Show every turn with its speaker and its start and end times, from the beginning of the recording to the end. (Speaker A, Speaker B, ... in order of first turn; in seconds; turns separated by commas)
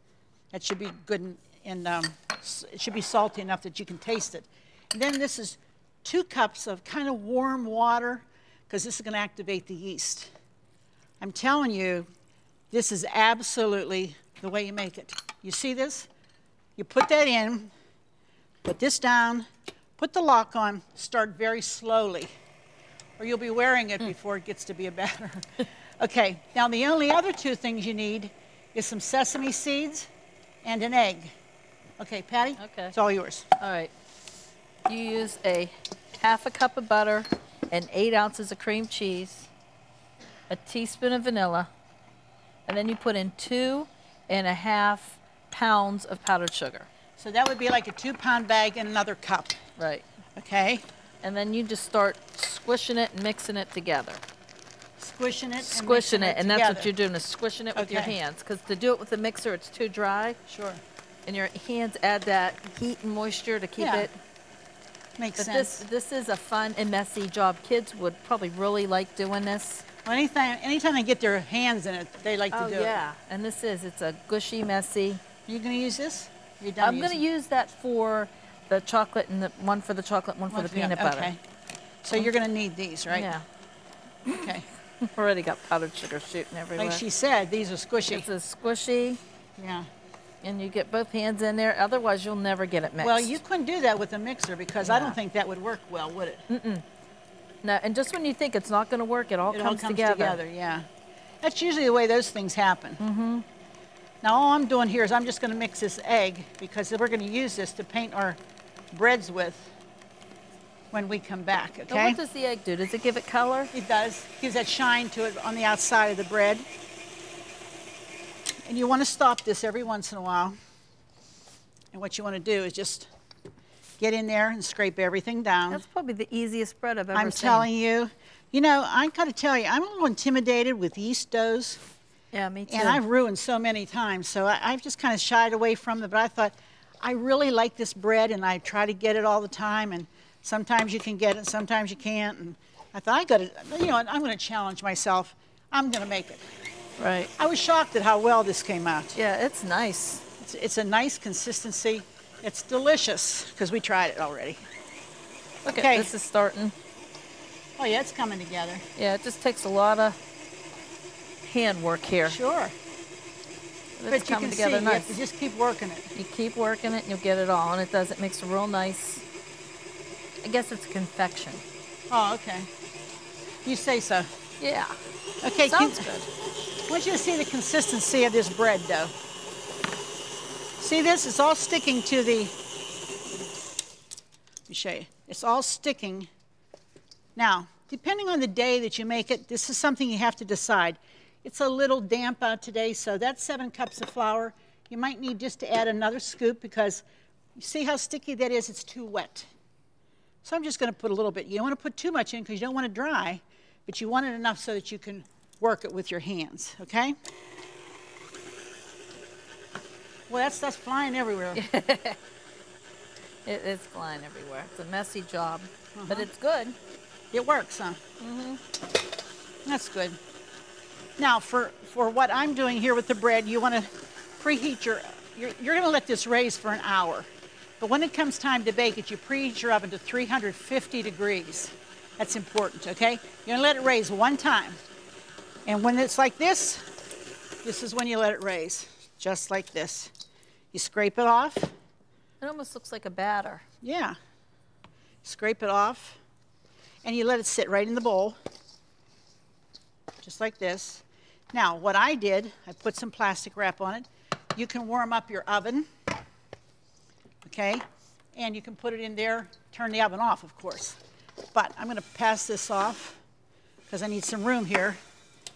Speaker A: 0.5-10.3, Speaker A: 11.2-12.1, Speaker A: 12.7-16.1, Speaker A: 16.8-17.7, Speaker A: 18.6-19.5, Speaker A: 20.0-22.3, Speaker A: 23.2-30.1, Speaker A: 30.6-31.3, Speaker A: 32.0-33.5, Speaker B: 32.6-32.9, Speaker B: 33.6-33.9, Speaker B: 34.9-39.5, Speaker B: 40.5-41.7, Speaker B: 42.7-46.9, Speaker A: 47.2-49.6, Speaker B: 49.8-50.0, Speaker A: 50.4-50.9, Speaker B: 51.2-54.2, Speaker A: 55.0-56.9, Speaker B: 55.6-60.4, Speaker A: 57.8-58.2, Speaker A: 60.5-60.8, Speaker B: 61.2-64.2, Speaker A: 63.8-64.1, Speaker A: 65.2-65.8, Speaker B: 65.4-69.9, Speaker A: 70.0-73.0, Speaker B: 72.5-75.2, Speaker A: 75.5-77.2, Speaker B: 76.8-81.3, Speaker A: 80.5-81.4, Speaker A: 82.0-83.3, Speaker B: 83.1-83.4, Speaker A: 84.3-84.7, Speaker B: 85.1-87.0, Speaker A: 86.8-88.3, Speaker B: 88.1-89.2, Speaker A: 89.6-89.9, Speaker B: 90.4-93.4, Speaker A: 93.0-96.4, Speaker B: 94.8-95.2, Speaker B: 96.5-96.8, Speaker B: 97.6-100.4, Speaker A: 99.5-100.9, Speaker A: 101.4-103.0, Speaker B: 103.0-103.5, Speaker A: 104.2-108.4, Speaker A: 108.9-109.7, Speaker A: 110.9-112.2, Speaker B: 111.9-113.7, Speaker A: 113.7-116.7, Speaker A: 118.7-120.6, Speaker A: 121.9-123.1, Speaker A: 124.0-125.8, Speaker B: 125.7-127.7, Speaker A: 127.1-131.8, Speaker B: 132.3-133.0, Speaker A: 132.7-146.4, Speaker B: 147.0-147.3, Speaker A: 147.4-149.2, Speaker B: 149.2-150.2, Speaker A: 150.4-154.6, Speaker B: 155.7-156.8, Speaker A: 155.7-156.1, Speaker A: 157.8-158.8, Speaker B: 159.0-160.2, Speaker B: 161.4-162.4, Speaker A: 162.2-162.8, Speaker B: 164.0-165.2, Speaker A: 164.1-166.1, Speaker B: 166.1-169.2, Speaker B: 170.4-171.6, Speaker A: 172.1-172.7, Speaker A: 173.7-174.3, Speaker B: 174.6-175.0, Speaker A: 175.4-176.1, Speaker B: 175.7-176.3, Speaker A: 176.9-179.1, Speaker A: 180.8-182.6, Speaker A: 184.7-186.3, Speaker A: 187.4-197.0, Speaker A: 197.6-199.5, Speaker A: 200.4-207.2, Speaker A: 210.3-211.6, Speaker B: 211.6-212.2, Speaker B: 213.4-216.8, Speaker A: 215.9-216.3, Speaker A: 217.3-218.0, Speaker B: 218.2-218.6, Speaker A: 219.7-220.2, Speaker A: 221.2-227.3, Speaker A: 227.8-234.8, Speaker A: 235.7-236.9, Speaker A: 237.6-240.1, Speaker A: 240.7-241.7, Speaker B: 242.4-243.6, Speaker A: 243.8-244.2, Speaker A: 245.2-246.2, Speaker A: 247.0-248.4, Speaker A: 250.2-255.9, Speaker A: 257.4-257.8, Speaker A: 258.4-261.0, Speaker A: 261.5-263.2, Speaker A: 263.9-265.0